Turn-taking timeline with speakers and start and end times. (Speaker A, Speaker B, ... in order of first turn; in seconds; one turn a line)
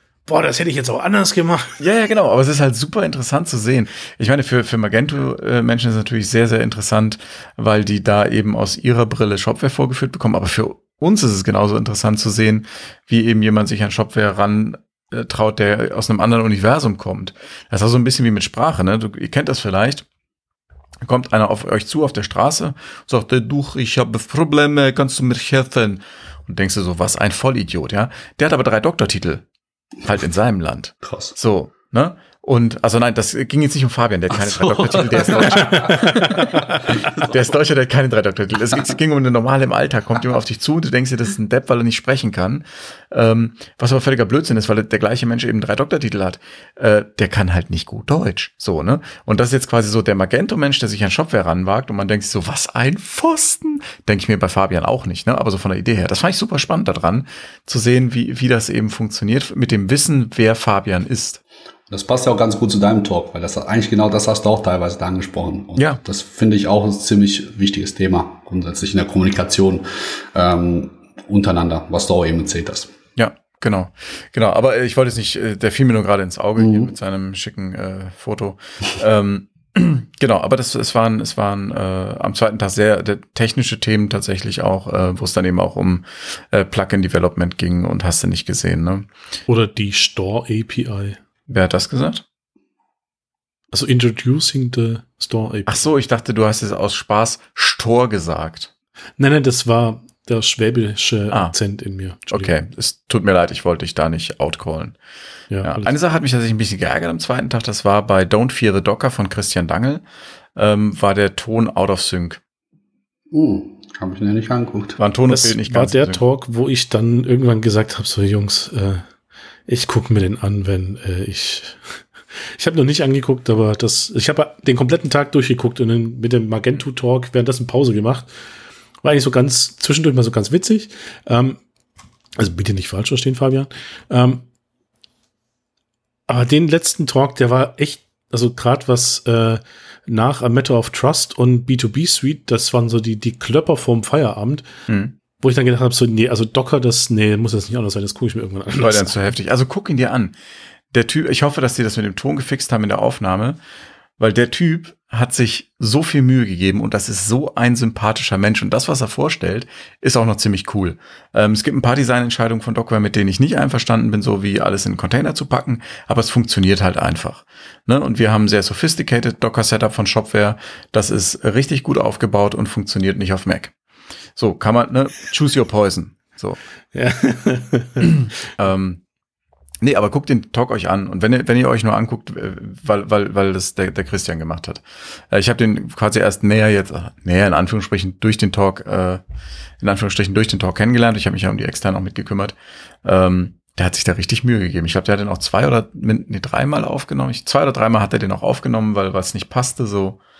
Speaker A: 0.2-1.8
Speaker B: 1.8-20.0
Speaker B: 21.0-29.4
Speaker B: 30.0-61.4
Speaker C: 31.0-31.3
Speaker C: 34.4-36.1
Speaker A: 35.9-36.7
Speaker C: 61.9-72.9
Speaker B: 73.2-89.0
Speaker C: 76.6-76.9
Speaker A: 89.5-91.2
Speaker B: 91.5-92.2
Speaker A: 93.7-95.9
Speaker B: 95.7-98.7
Speaker A: 99.2-102.5
Speaker B: 102.3-105.0
Speaker A: 105.5-105.9
Speaker B: 105.6-110.0
Speaker B: 110.5-112.4
Speaker C: 113.3-115.0
Speaker B: 115.0-116.2
Speaker A: 115.3-119.0
Speaker A: 119.7-128.3
Speaker A: 129.0-131.6
Speaker A: 132.4-134.4
Speaker A: 136.3-144.7
Speaker B: 144.9-145.1
Speaker A: 145.4-149.3
Speaker B: 148.7-150.3
Speaker B: 150.9-153.6
Speaker B: 154.2-173.7
Speaker B: 174.3-176.6
Speaker A: 176.9-178.2
Speaker B: 178.0-179.0
Speaker B: 179.8-189.2
Speaker B: 189.8-200.2